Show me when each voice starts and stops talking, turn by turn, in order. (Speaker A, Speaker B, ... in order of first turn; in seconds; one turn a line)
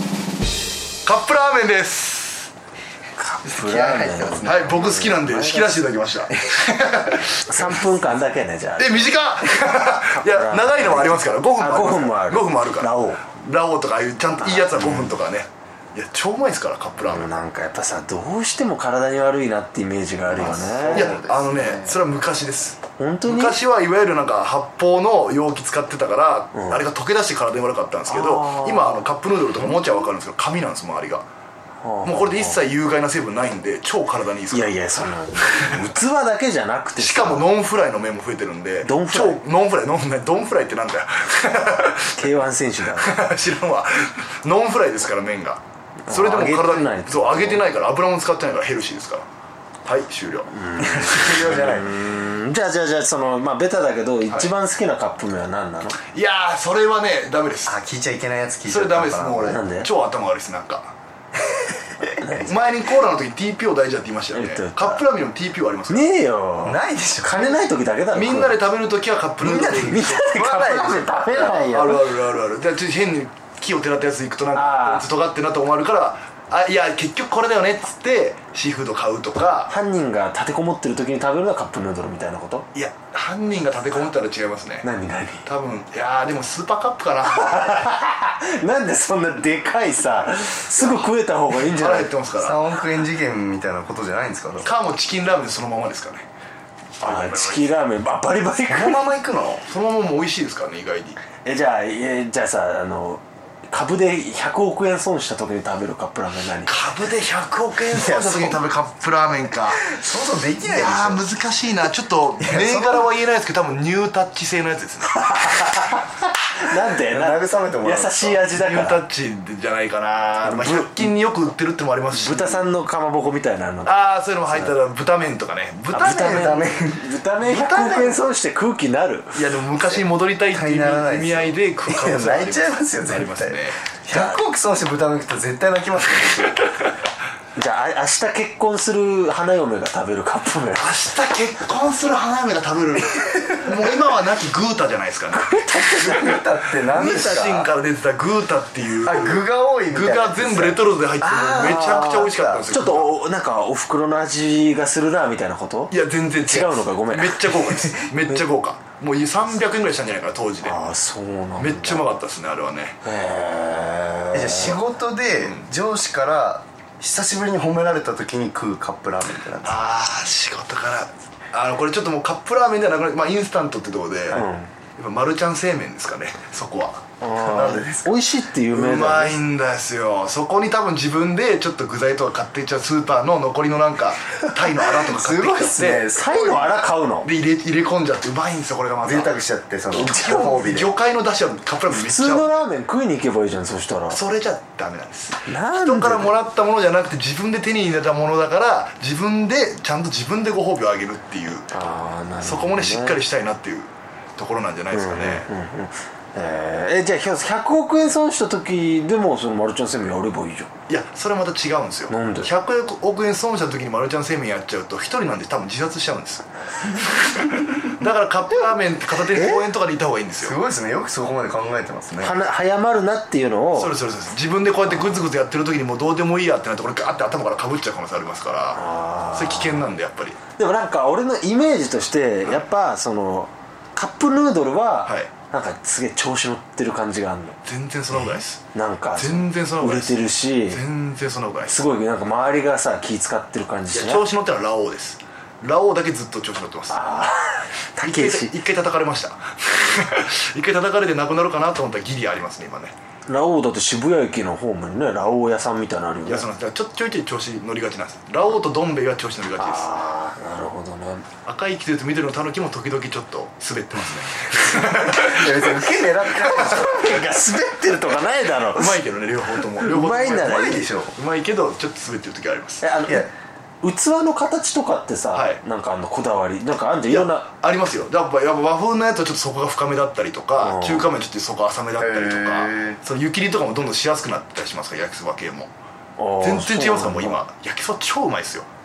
Speaker A: 1.1-2.5
Speaker B: 3.2-5.8
Speaker C: 3.5-4.7
Speaker A: 4.4-7.8
Speaker B: 7.5-9.2
Speaker A: 8.8-17.3
Speaker B: 9.8-13.2
Speaker B: 14.4-15.2
Speaker B: 17.0-21.1
Speaker C: 20.3-22.0
Speaker A: 20.9-31.3
Speaker B: 23.0-23.6
Speaker B: 26.6-26.8
Speaker B: 28.1-29.1
Speaker B: 31.8-32.6
Speaker A: 32.0-34.8
Speaker B: 34.5-37.5
Speaker A: 37.0-42.2
Speaker B: 38.8-39.4
Speaker B: 42.2-43.2
Speaker A: 43.0-49.3
Speaker B: 46.1-47.6
Speaker A: 49.9-51.8
Speaker B: 50.6-56.0
Speaker C: 50.9-51.9
Speaker A: 56.1-57.8
Speaker C: 57.7-59.6
Speaker A: 58.7-60.9
Speaker B: 59.5-59.9
Speaker C: 61.5-62.2
Speaker B: 62.2-62.5
Speaker A: 62.4-66.1
Speaker B: 64.3-65.0
Speaker B: 65.9-68.6
Speaker C: 66.6-67.6
Speaker A: 68.1-70.4
Speaker B: 69.4-72.1
Speaker C: 69.5-71.7
Speaker A: 71.5-79.7
Speaker B: 74.5-75.1
Speaker B: 79.7-82.7
Speaker A: 82.7-84.9
Speaker B: 84.8-85.5
Speaker A: 85.5-87.8
Speaker B: 87.2-92.1
Speaker A: 90.8-92.7
Speaker C: 92.4-94.7
Speaker A: 94.6-96.3
Speaker B: 97.0-99.0
Speaker A: 97.0-97.7
Speaker C: 98.7-99.6
Speaker A: 99.6-101.2
Speaker B: 101.4-106.8
Speaker A: 106.7-109.9
Speaker C: 107.9-108.8
Speaker C: 109.7-111.3
Speaker A: 110.6-115.7
Speaker C: 112.4-113.1
Speaker B: 115.1-119.0
Speaker C: 117.0-118.4
Speaker A: 118.5-122.7
Speaker B: 120.4-121.1
Speaker B: 122.1-124.7
Speaker A: 123.8-126.6
Speaker B: 125.9-129.4
Speaker C: 126.0-127.1
Speaker A: 127.4-128.2
Speaker A: 129.3-133.8
Speaker C: 130.5-136.6
Speaker B: 134.1-134.4
Speaker B: 137.6-140.9
Speaker A: 140.8-145.6
Speaker B: 145.3-146.4
Speaker C: 146.0-147.7
Speaker A: 146.9-153.1
Speaker B: 147.0-147.6
Speaker C: 149.0-150.8
Speaker B: 151.2-158.4
Speaker C: 151.4-152.7
Speaker A: 155.9-160.8
Speaker B: 160.6-162.1
Speaker A: 161.6-163.0
Speaker B: 163.0-164.8
Speaker C: 164.3-169.8
Speaker A: 165.4-165.7
Speaker A: 169.6-174.4
Speaker B: 174.3-174.7
Speaker A: 175.0-177.0
Speaker B: 177.2-179.4
Speaker C: 177.4-178.1
Speaker A: 178.7-186.1
Speaker C: 184.7-186.8
Speaker B: 186.1-187.3
Speaker A: 187.2-189.3
Speaker C: 189.1-190.9
Speaker A: 189.9-192.7
Speaker B: 190.0-190.4
Speaker B: 191.9-194.2
Speaker A: 194.1-201.7
Speaker B: 195.5-196.3
Speaker B: 201.7-203.2
Speaker A: 202.4-205.5
Speaker B: 204.9-210.7
Speaker A: 210.9-220.6
Speaker B: 212.1-212.5
Speaker B: 219.3-219.6
Speaker C: 220.4-222.4
Speaker B: 222.2-224.0
Speaker A: 223.8-230.4
Speaker B: 228.8-229.8
Speaker B: 230.6-237.6
Speaker A: 235.1-235.3
Speaker A: 237.7-238.6
Speaker B: 238.7-240.8
Speaker A: 239.2-241.8
Speaker B: 241.7-244.2
Speaker A: 243.9-247.0
Speaker B: 246.9-248.5
Speaker A: 248.0-252.9
Speaker B: 253.3-256.5
Speaker A: 256.3-259.9
Speaker B: 259.6-261.3
Speaker A: 261.4-265.6
Speaker C: 264.7-267.2
Speaker B: 266.6-269.0
Speaker A: 268.7-272.9
Speaker B: 269.8-270.8
Speaker C: 270.2-271.1
Speaker B: 272.8-273.3
Speaker B: 273.8-277.5
Speaker A: 275.3-275.6
Speaker A: 277.1-285.7
Speaker B: 280.6-281.1
Speaker C: 282.0-283.0
Speaker B: 286.2-287.4
Speaker A: 286.4-288.7